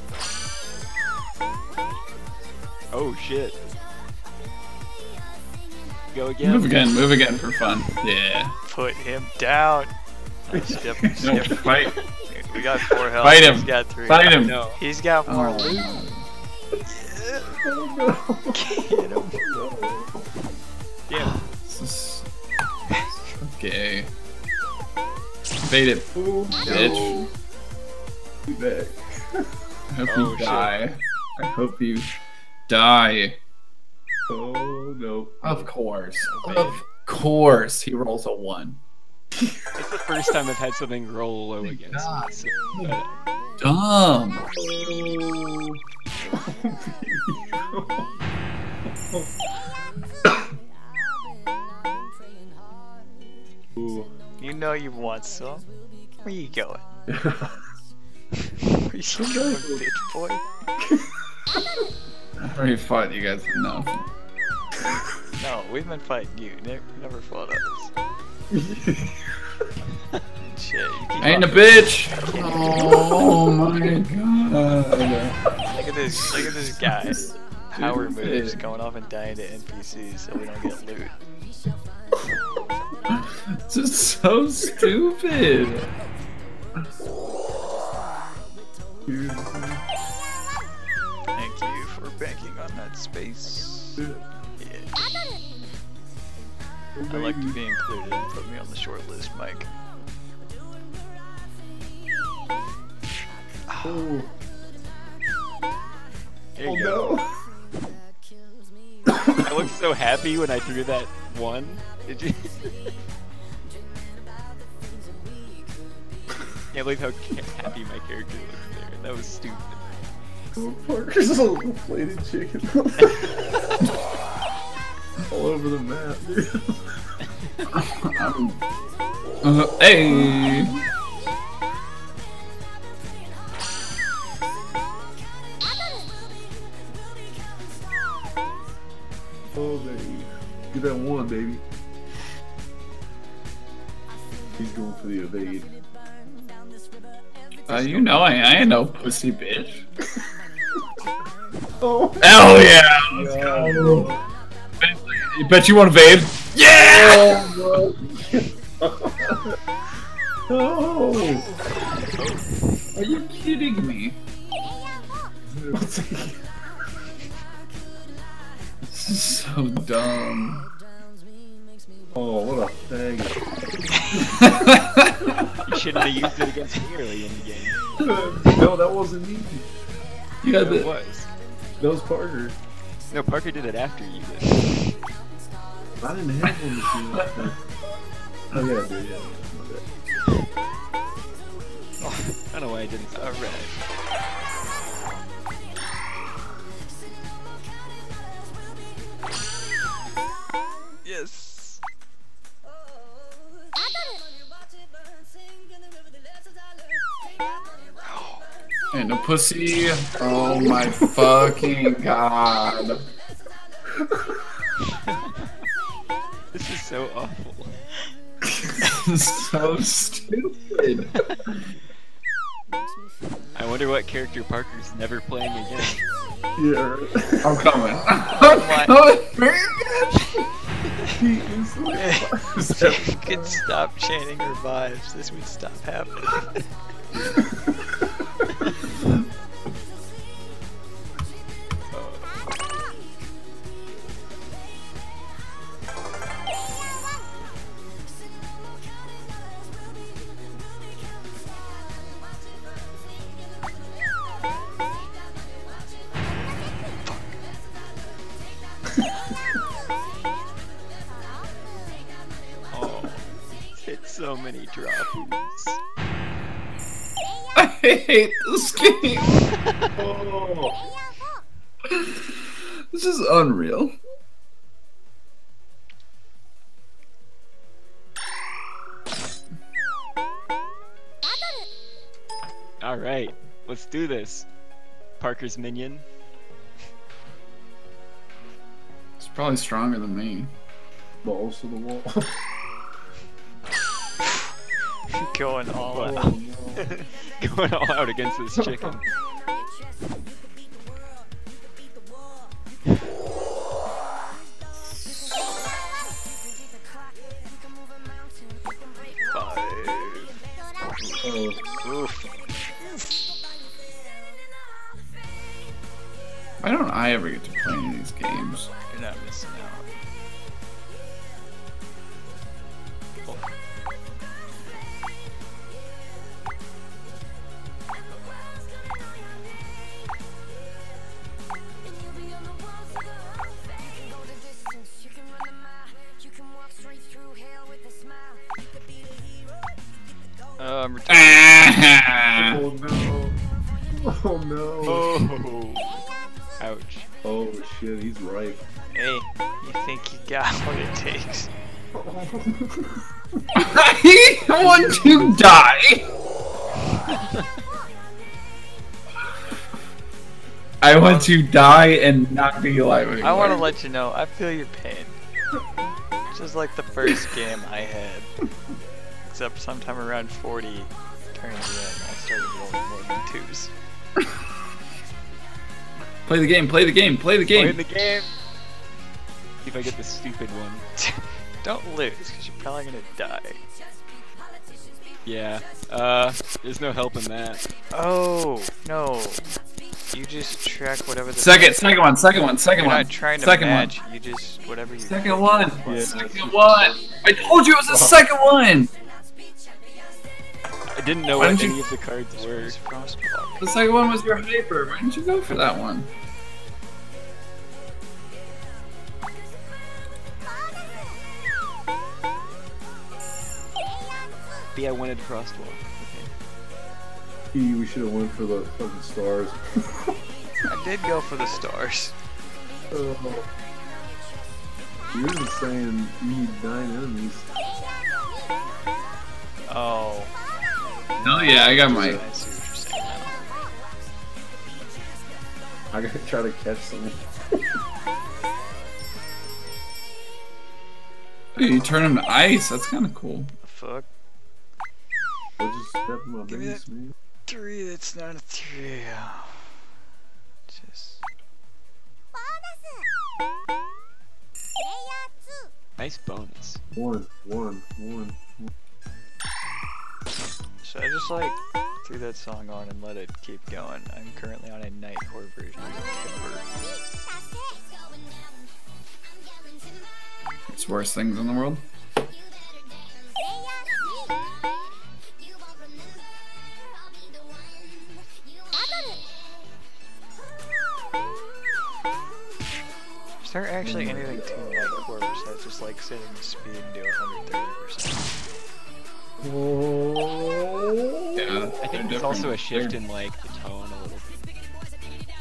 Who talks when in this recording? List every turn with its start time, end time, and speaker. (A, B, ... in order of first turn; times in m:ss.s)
0:02.9-0:03.6 A
0:06.1-0:06.9 A
0:06.4-0:08.6 B
0:08.6-0:09.9 C
0:10.5-0:16.0 C
0:10.5-0:11.7 D
0:11.2-0:12.0 B
0:13.2-0:14.6 B
0:14.4-0:14.8 A
0:15.3-0:16.3 B
0:16.9-0:17.6 C
0:17.6-0:20.3 D
0:18.5-0:19.6 C
0:21.1-0:21.4 A
0:21.2-0:21.4 C
0:21.6-0:22.3 B
0:22.9-0:24.1 B
0:25.6-0:27.3 B
0:26.2-0:27.3 D
0:26.6-0:27.2 C
0:28.5-0:29.6 D
0:29.9-0:32.1 B
0:30.1-0:30.8 A
0:32.7-0:33.4 B
0:34.3-0:35.7 D
0:35.4-0:38.8 B
0:36.3-0:36.8 A
0:39.4-0:39.7 D
0:39.8-0:43.1 A
0:41.6-0:42.3 B
0:43.6-0:44.5 B
0:44.6-0:48.1 D
0:49.0-0:49.3 D
0:53.8-0:54.1 D
0:54.4-0:55.7 C
0:56.2-0:56.8 C
0:57.1-0:57.6 D
0:58.6-1:00.4 C
0:59.1-0:59.8 D
1:00.8-1:01.6 D
1:02.4-1:04.1 B
1:05.4-1:07.9 C
1:08.5-1:09.5 D
1:10.4-1:13.3 C
1:11.1-1:11.5 A
1:11.2-1:15.4 B
1:12.7-1:13.4 D
1:15.7-1:21.2 C
1:16.2-1:16.8 B
1:17.8-1:18.6 B
1:23.1-1:25.9 B
1:29.1-1:29.9 D
1:31.4-1:34.0 C
1:34.0-1:34.2 D
1:34.6-1:35.0 C
1:37.0-1:37.6 D
1:37.1-1:39.7 C
1:43.7-1:44.1 C
1:43.8-1:44.3 D
1:46.6-1:47.2 A
1:46.6-1:47.5 D
1:49.3-1:53.0 A
1:56.7-2:00.0 A
2:00.6-2:03.5 D
2:05.3-2:07.1 D
2:07.7-2:08.6 B
2:09.4-2:10.8 B
2:10.1-2:10.8 D
2:19.5-2:21.6 D
2:24.6-2:25.7 D
2:27.7-2:29.8 B
2:31.8-2:34.3 D
2:32.2-2:34.2 B
2:34.8-2:38.1 B
2:36.7-2:39.6 D
2:40.5-2:41.5 D
2:41.1-2:42.2 C
2:42.2-2:42.6 A
2:42.9-2:44.2 B
2:45.5-2:46.5 D
2:48.9-2:50.7 B
2:52.1-2:53.4 D
2:54.0-2:54.3 C
2:54.2-2:55.4 B
2:55.6-2:58.1 A
2:58.0-2:59.7 D
3:00.4-3:00.9 B
3:00.5-3:01.3 A
3:01.8-3:02.6 D
3:03.1-3:05.0 A
3:06.0-3:07.6 D
3:07.1-3:07.5 B
3:08.5-3:09.9 D
3:12.0-3:12.3 C
3:12.4-3:13.7 A
3:13.2-3:13.8 C
3:21.0-3:21.8 C
3:28.0-3:28.4 C
3:28.9-3:33.1 B
3:30.4-3:31.9 D
3:33.9-3:34.4 D
3:36.5-3:37.8 A
3:38.8-3:41.6 B
3:40.6-3:41.0 D
3:43.6-3:46.1 A
3:46.6-3:47.8 D
3:47.4-3:50.5 B
3:48.3-3:49.0 C
3:51.1-3:53.6 D
3:51.9-3:56.5 C
3:57.2-3:57.9 D
4:01.9-4:02.4 A
4:16.7-4:17.4 C
4:22.7-4:23.2 C
4:23.7-4:25.8 A
4:27.6-4:29.5 B
4:29.6-4:30.0 A
4:30.0-4:30.8 D
4:31.9-4:34.0 B
4:42.8-4:44.5 A
4:45.2-4:46.0 A
4:49.2-4:50.5 B
4:51.2-4:52.4 D
4:55.1-4:56.4 C
4:55.9-4:56.2 A
4:56.0-4:56.9 D
4:56.8-4:59.0 A
5:09.3-5:10.4 C
5:11.0-5:11.3 C
5:11.2-5:11.7 D
5:11.8-5:13.2 C
5:16.6-5:18.7 B
5:18.4-5:19.9 C
5:40.6-5:41.8 C
5:41.1-5:42.6 B
5:42.4-5:45.3 D
5:44.8-5:46.0 A
5:46.6-5:47.1 A
5:47.2-5:48.6 D
5:48.9-5:51.5 C
5:51.9-5:53.0 D
5:53.6-5:56.1 B
5:54.6-5:55.4 D
5:57.1-5:57.4 A
6:00.8-6:03.7 B
6:01.0-6:01.3 C
6:03.2-6:05.2 C
6:06.3-6:08.3 C
6:09.2-6:13.7 C
6:16.3-6:17.8 B
6:17.5-6:18.3 A
6:19.6-6:20.8 A
6:21.0-6:23.6 C
6:25.3-6:27.6 A
6:27.9-6:29.5 C
6:30.1-6:31.8 C
6:31.4-6:34.0 B
6:32.7-6:36.3 C
6:35.0-6:38.9 B
6:35.8-6:38.2 D
6:40.9-6:42.8 A
6:41.4-6:41.8 B
6:42.4-6:43.8 C
6:43.6-6:46.1 B
6:54.7-6:56.3 A
6:57.5-7:00.2 D
7:00.6-7:02.2 C
7:02.9-7:03.5 D
7:05.1-7:07.5 D
7:09.7-7:10.3 C
7:11.1-7:13.4 C
7:11.2-7:12.2 B
7:11.9-7:12.2 D
7:15.9-7:17.8 D
7:21.6-7:23.5 B
7:23.6-7:24.1 C
7:25.6-7:27.1 D
7:26.5-7:26.8 C
7:27.5-7:29.8 C
7:30.7-7:31.2 C
7:36.0-7:36.8 A
7:37.0-7:38.7 D
7:40.8-7:46.7 C
7:50.7-7:51.8 B
8:03.4-8:08.4 C
8:03.8-8:05.0 D
8:09.4-8:11.6 D
8:11.4-8:13.0 B
8:11.8-8:14.4 A